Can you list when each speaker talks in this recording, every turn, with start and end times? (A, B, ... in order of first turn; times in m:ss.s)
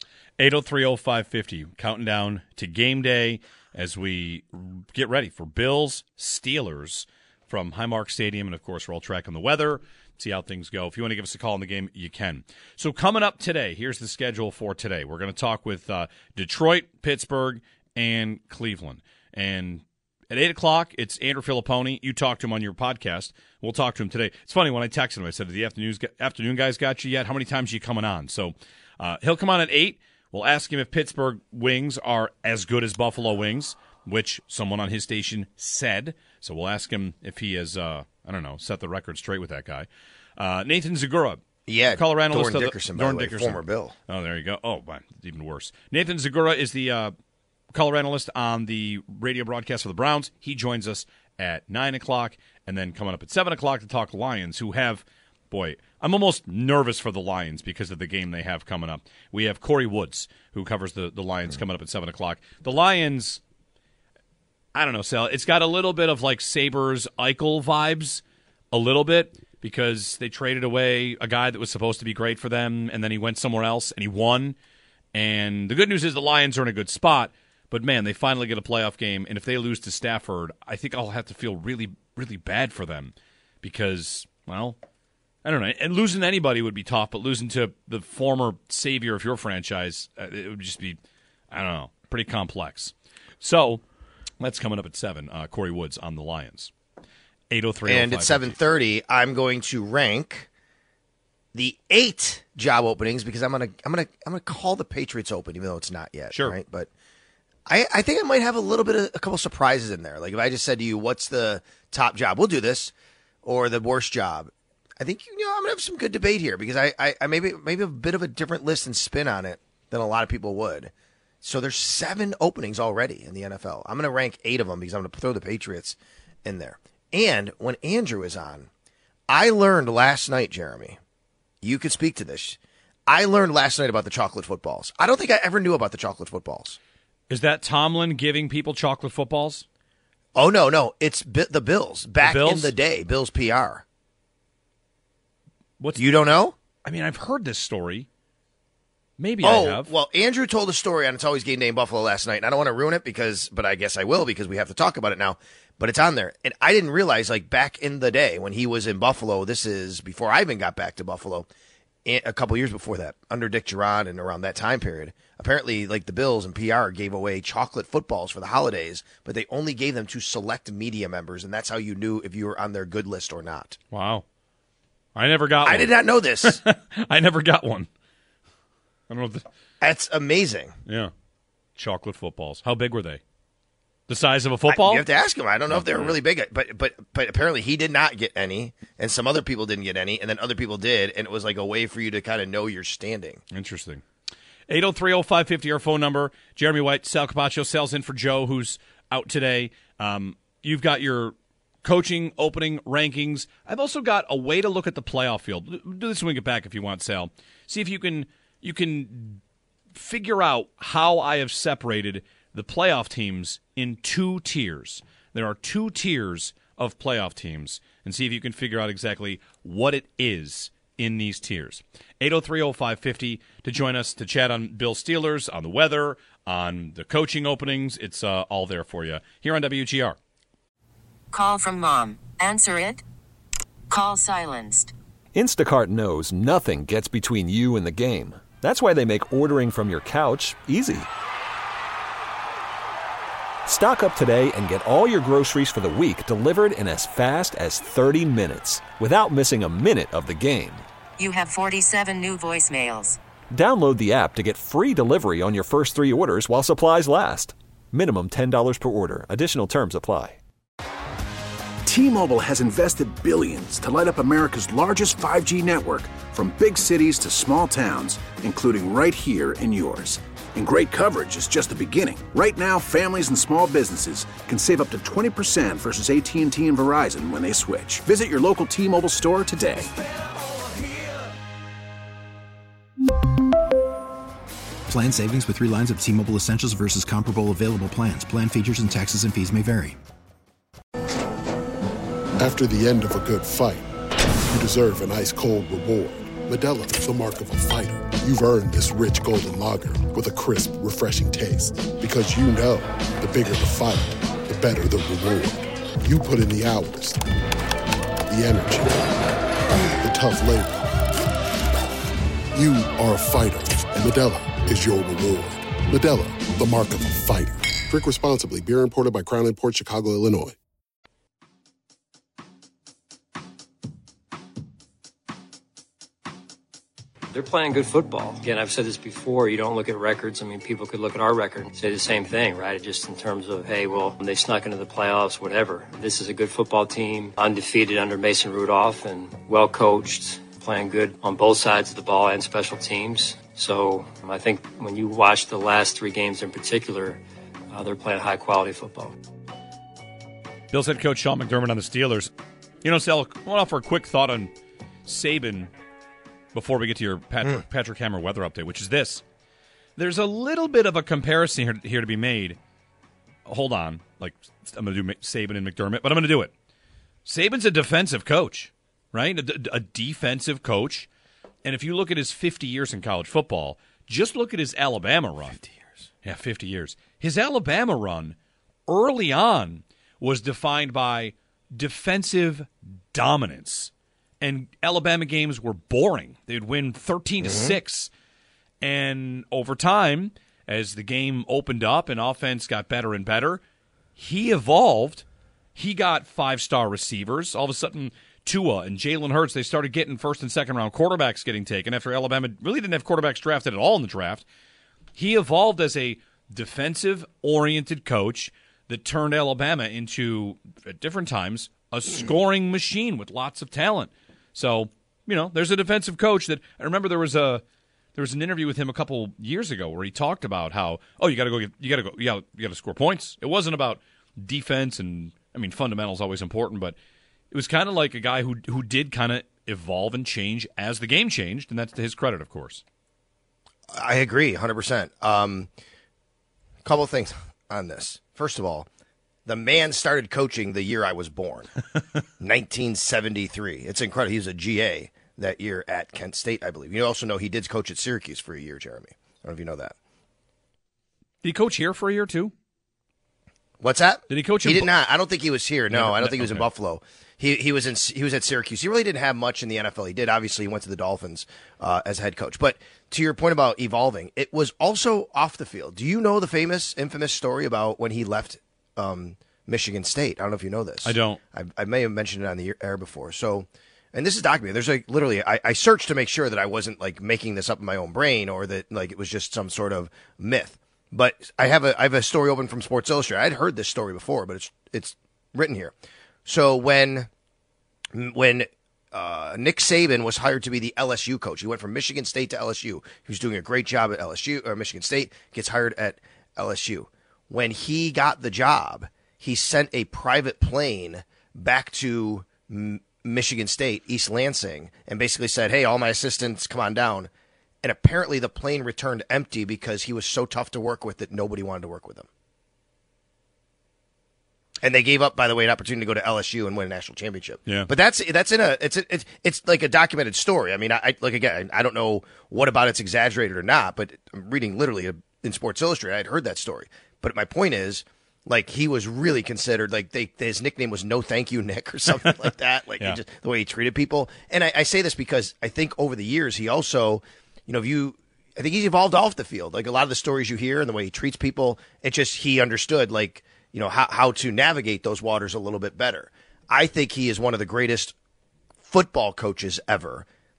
0:00.4-0:47.1 A
0:41.7-0:44.0 B
0:47.7-1:03.4 A
1:04.8-1:14.6 A
1:15.1-1:24.8 A
1:25.4-1:31.0 A
1:31.5-1:33.8 A
1:34.4-1:36.7 A
1:37.5-1:38.6 A
1:37.8-1:40.5 B
1:41.5-1:46.9 B
1:46.3-1:46.6 A
1:47.7-1:52.9 B
1:53.4-2:08.7 B
2:09.3-2:11.0 B
2:11.6-2:16.8 B
2:17.3-2:19.6 A
2:20.4-2:23.8 B
2:22.2-2:22.7 A
2:25.8-2:26.1 A
2:26.0-2:26.6 B
2:26.8-2:28.1 A
2:29.2-2:29.9 A
2:29.4-2:41.5 B
2:42.0-2:53.8 B
2:53.9-2:54.2 A
2:55.2-2:55.9 A
2:55.6-2:56.6 B
2:56.4-2:57.9 A
2:59.1-2:59.4 A
2:59.8-3:00.8 B
3:00.9-3:01.1 A
3:01.8-3:03.2 A
3:04.1-3:05.1 A
3:04.7-3:13.4 B
3:05.7-3:06.2 A
3:13.5-3:14.0 A
3:14.7-3:29.4 A
3:30.0-3:50.2 A
3:51.3-3:53.0 C
3:53.9-3:54.9 C
3:55.3-4:01.1 D
4:03.7-4:10.8 D
4:11.2-4:13.2 C
4:13.5-4:20.4 D
4:21.9-4:39.9 E
4:44.9-4:50.0 F
4:52.4-4:53.9 G
4:54.5-5:07.2 G
5:08.3-5:09.1 G
5:10.0-5:10.9 G
5:12.5-5:20.6 G
5:27.3-5:49.2 H
5:50.7-5:52.3 A
5:52.8-5:54.5 A
5:55.0-5:55.7 A
5:56.5-5:59.2 A
6:00.0-6:02.6 A
6:03.5-6:06.5 A
6:07.3-6:11.1 A
6:11.6-6:15.6 A
6:15.6-6:15.9 B
6:16.2-6:18.4 A
6:18.9-6:28.1 A
6:27.4-6:27.8 B
6:28.8-6:33.6 A
6:34.2-6:44.4 A
6:45.2-6:57.6 A
6:58.2-7:07.0 A
7:07.5-7:12.8 A
7:13.9-7:15.7 B
7:16.8-7:18.9 B
7:19.5-7:21.7 B
7:22.4-7:30.0 B
7:31.4-7:32.5 A
7:33.8-8:05.9 B
7:34.3-7:34.9 A
7:35.9-7:36.7 A
7:51.0-7:51.4 A
8:06.5-8:07.3 B
8:08.1-8:27.3 B
8:27.8-8:32.3 B
8:34.8-9:08.2 B
9:08.9-9:10.3 B